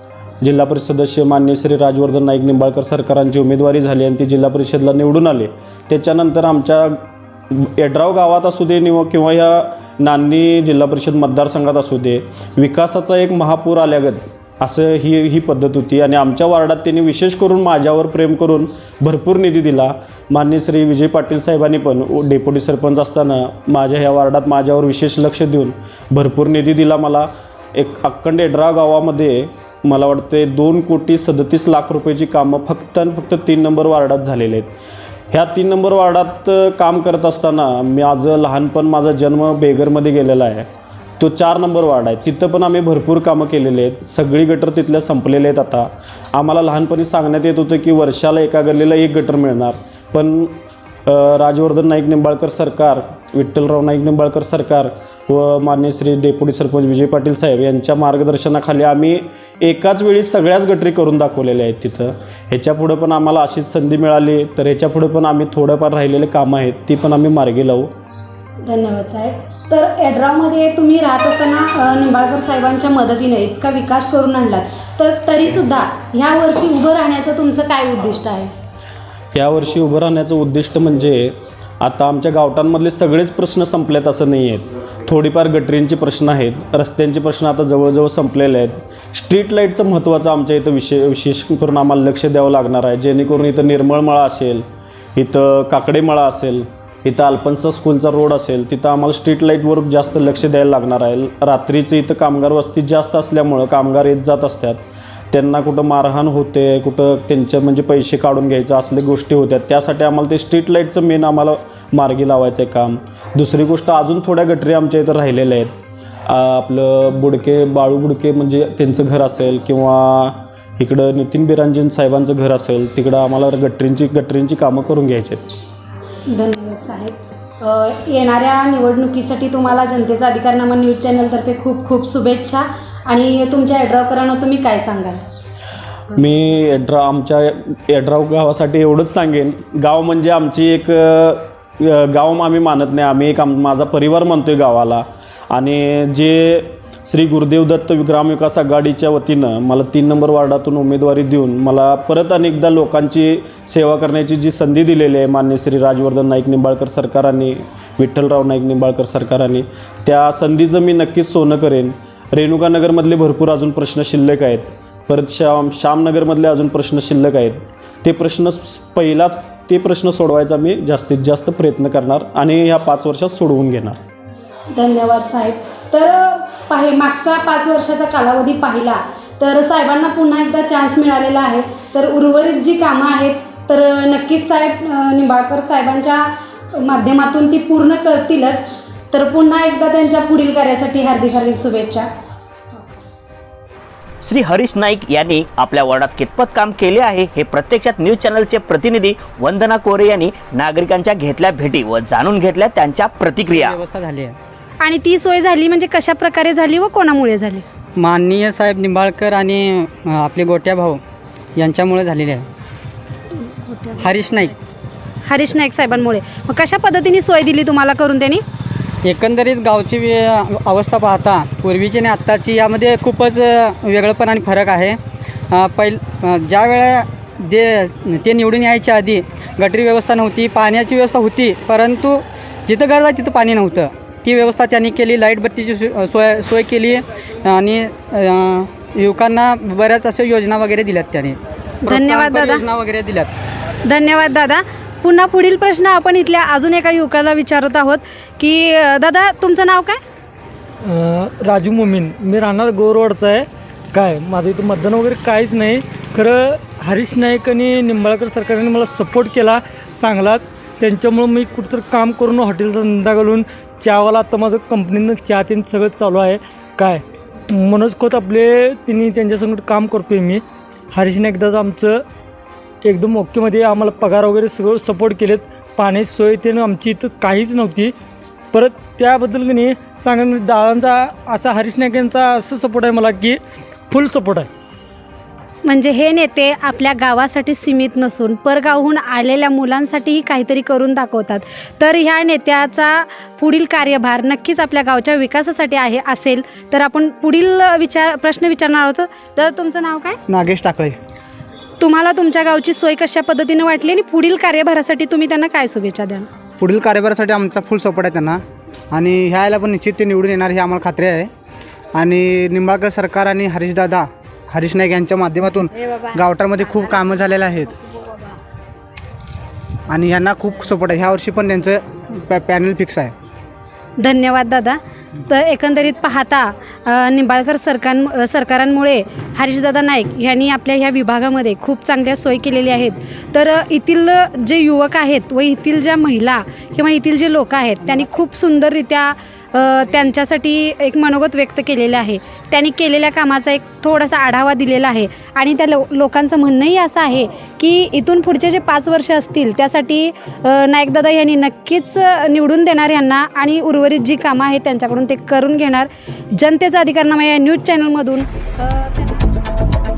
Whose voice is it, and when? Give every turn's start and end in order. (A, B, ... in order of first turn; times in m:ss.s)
0:00.4-0:34.7 A
0:35.3-0:40.7 A
0:41.2-1:07.9 A
1:08.6-1:18.5 B
1:19.3-1:34.6 A
1:35.2-1:44.8 A
1:45.3-1:55.7 A
1:56.3-2:05.5 A
2:06.3-2:15.2 B
2:16.1-2:54.0 A
2:54.7-3:12.1 B
3:14.2-3:23.8 C
3:23.5-3:24.4 D
3:24.8-3:27.6 B
3:28.0-3:31.0 D
3:31.6-3:32.5 D
3:33.5-3:33.9 B
3:34.0-3:34.5 D
3:35.2-3:38.4 B
3:39.0-3:45.0 D
3:45.5-4:03.3 D
4:01.9-4:02.6 B
4:03.8-4:10.0 B
4:10.8-4:32.0 E
4:32.8-4:37.9 E
4:38.5-4:43.4 E
4:43.9-4:44.5 E
4:45.6-5:00.2 B
5:00.3-5:01.0 F
5:01.8-5:06.3 B
5:06.6-5:08.4 F
5:08.9-5:11.3 F
5:11.9-5:17.8 F
5:19.9-5:23.1 F
5:24.0-5:59.2 B